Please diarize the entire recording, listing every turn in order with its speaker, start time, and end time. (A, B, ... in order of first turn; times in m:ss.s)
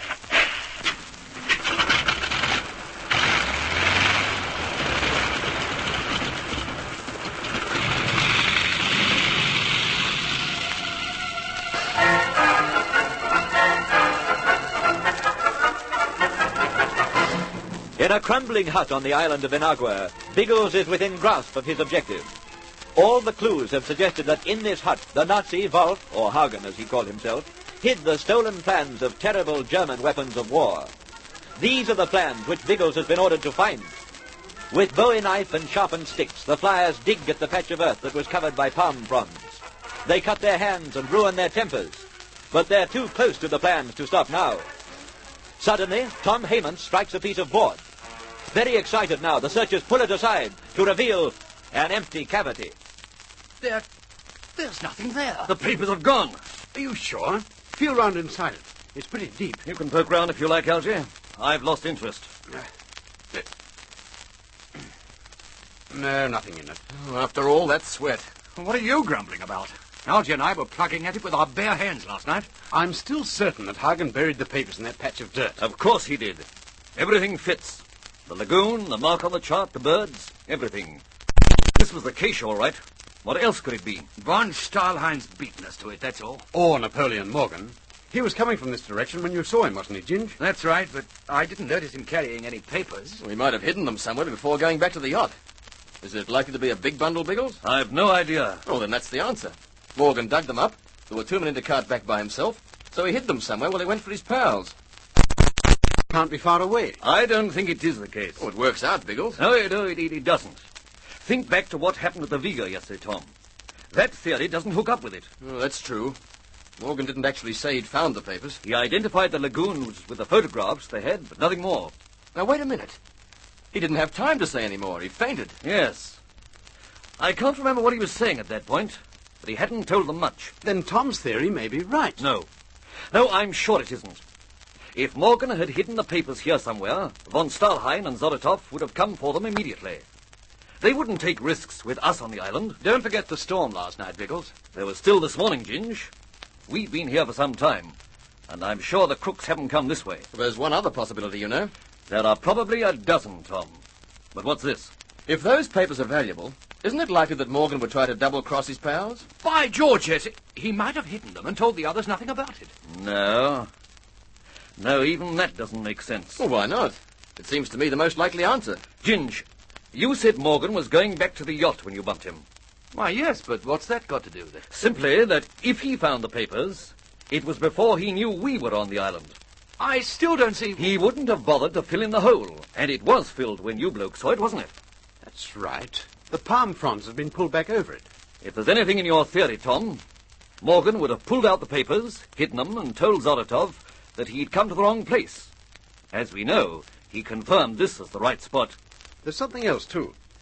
0:18.0-0:22.3 A
0:22.9-0:30.9 A
0:31.6-0:33.9 A
0:34.7-0:44.6 A
0:45.6-0:47.8 A
0:48.5-0:52.7 A
0:54.7-0:55.5 B
0:55.5-0:56.6 C
0:56.7-0:59.6 D
0:59.6-1:02.3 C
1:05.9-1:06.8 D
1:06.9-1:08.3 E
1:08.6-1:12.5 B
1:12.7-1:15.6 D
1:15.6-1:21.0 C
1:21.7-1:24.1 C
1:24.2-1:26.4 B
1:26.5-1:30.4 D
1:30.4-1:33.2 B
1:33.2-1:35.3 E
1:36.0-1:37.6 E
1:37.6-1:38.6 C
1:38.6-1:44.7 E
1:46.1-1:47.0 D
1:47.0-1:48.5 C
1:48.4-1:49.4 E
1:49.4-1:50.6 C
1:51.2-1:53.3 C
1:53.9-1:55.3 C
1:55.4-1:56.2 E
1:56.8-1:58.6 E
1:58.6-2:01.9 C
2:02.3-2:03.0 E
2:03.7-2:05.5 E
2:05.6-2:06.2 C
2:07.2-2:10.5 C
2:10.6-2:12.2 D
2:12.2-2:12.5 C
2:13.1-2:14.2 C
2:14.9-2:20.0 C
2:20.8-2:22.8 C
2:22.8-2:24.5 B
2:24.7-2:26.1 C
2:26.7-2:28.0 C
2:28.5-2:30.2 C
2:30.3-2:31.7 E
2:32.1-2:33.8 C
2:34.3-2:34.9 C
2:35.3-2:39.2 E
2:39.4-2:42.7 B
2:42.9-2:43.7 C
2:44.8-2:46.4 C
2:46.4-2:48.8 E
2:49.0-2:52.4 C
2:52.9-2:54.6 B
2:54.7-2:59.4 C
2:59.8-3:00.8 B
3:00.7-3:04.7 C
3:05.2-3:08.0 D
3:08.4-3:10.0 C
3:10.6-3:15.5 C
3:16.1-3:18.8 C
3:19.2-3:20.1 D